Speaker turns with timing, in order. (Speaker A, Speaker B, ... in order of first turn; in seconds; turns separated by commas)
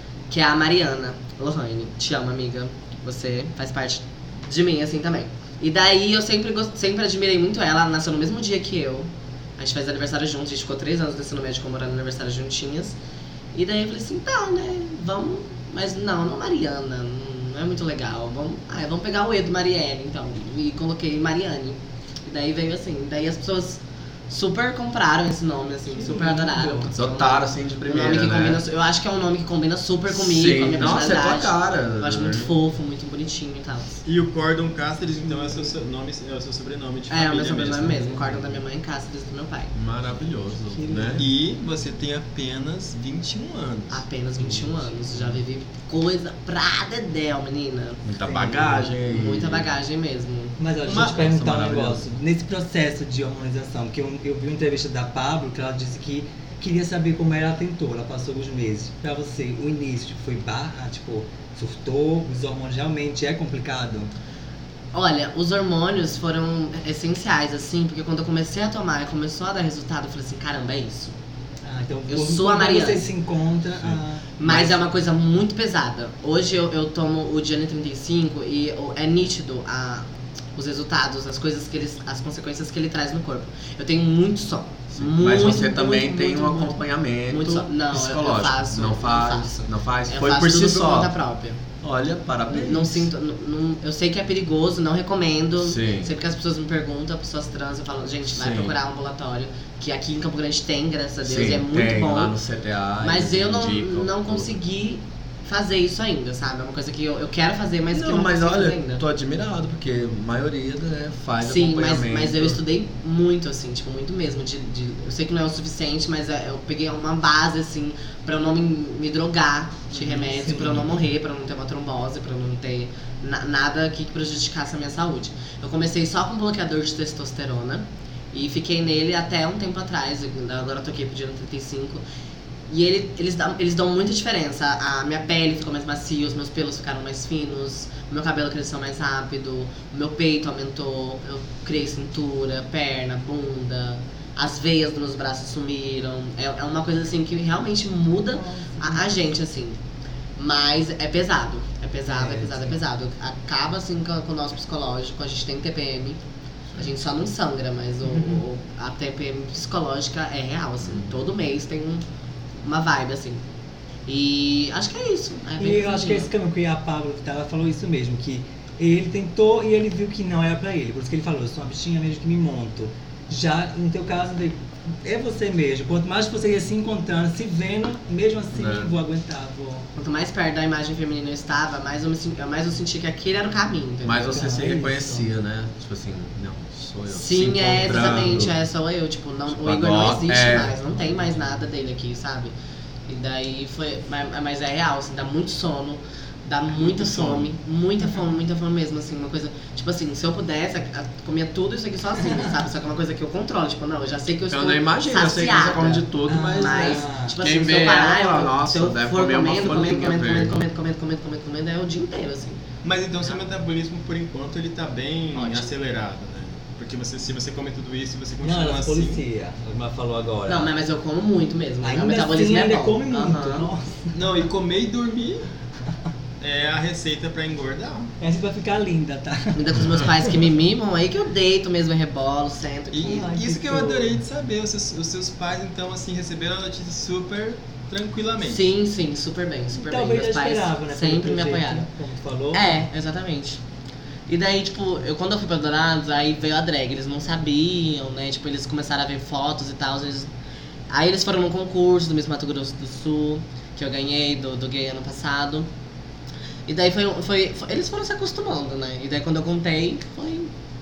Speaker A: 0.3-12.9, Speaker A: 13.5-34.0, Speaker B: 26.0-26.9, Speaker C: 26.9-28.6, Speaker C: 30.1-32.5, Speaker D: 34.0-38.4, Speaker B: 35.2-35.7, Speaker A: 37.1-39.7, Speaker C: 39.7-41.2, Speaker B: 40.7-41.2, Speaker D: 41.2-44.0, Speaker A: 43.9-48.0, Speaker C: 48.0-49.7, Speaker B: 48.2-48.9, Speaker A: 48.7-50.6, Speaker B: 50.6-64.1, Speaker D: 50.9-51.2, Speaker C: 50.9-52.0, Speaker A: 64.9-71.2, Speaker B: 71.6-74.3, Speaker A: 72.1-73.0, Speaker A: 74.4-91.6, Speaker C: 84.9-91.1, Speaker C: 91.8-93.1, Speaker A: 92.5-102.3, Speaker C: 95.6-96.1, Speaker C: 98.3-98.8, Speaker C: 101.2-104.5, Speaker A: 103.0-109.0, Speaker C: 107.9-112.6, Speaker A: 111.4-132.0, Speaker B: 120.0-120.9, Speaker A: 132.7-149.8, Speaker B: 148.3-149.2, Speaker A: 150.4-156.2, Speaker B: 152.1-152.8, Speaker A: 156.7-162.0, Speaker B: 158.0-158.4, Speaker A: 162.6-163.4, Speaker A: 164.1-166.3, Speaker B: 165.6-179.9, Speaker C: 178.5-178.9, Speaker A: 180.0-184.8, Speaker C: 184.0-188.5, Speaker B: 184.3-185.3, Speaker A: 187.1-192.5, Speaker C: 189.5-190.7, Speaker A: 193.1-212.6, Speaker D: 196.8-197.4, Speaker B: 202.2-202.5, Speaker C: 204.5-210.6, Speaker B: 206.3-207.4, Speaker D: 212.8-219.2, Speaker A: 215.3-215.7, Speaker B: 218.4-220.7, Speaker A: 220.5-223.7, Speaker B: 221.8-224.1, Speaker D: 224.1-225.4, Speaker D: 226.4-228.1, Speaker B: 228.2-229.9, Speaker A: 229.5-233.3, Speaker D: 232.9-238.6, Speaker B: 233.0-234.1, Speaker A: 238.4-241.9, Speaker B: 239.7-242.8, Speaker A: 242.5-243.6, Speaker A: 244.3-250.3, Speaker A: 250.9-255.7, Speaker A: 256.7-260.5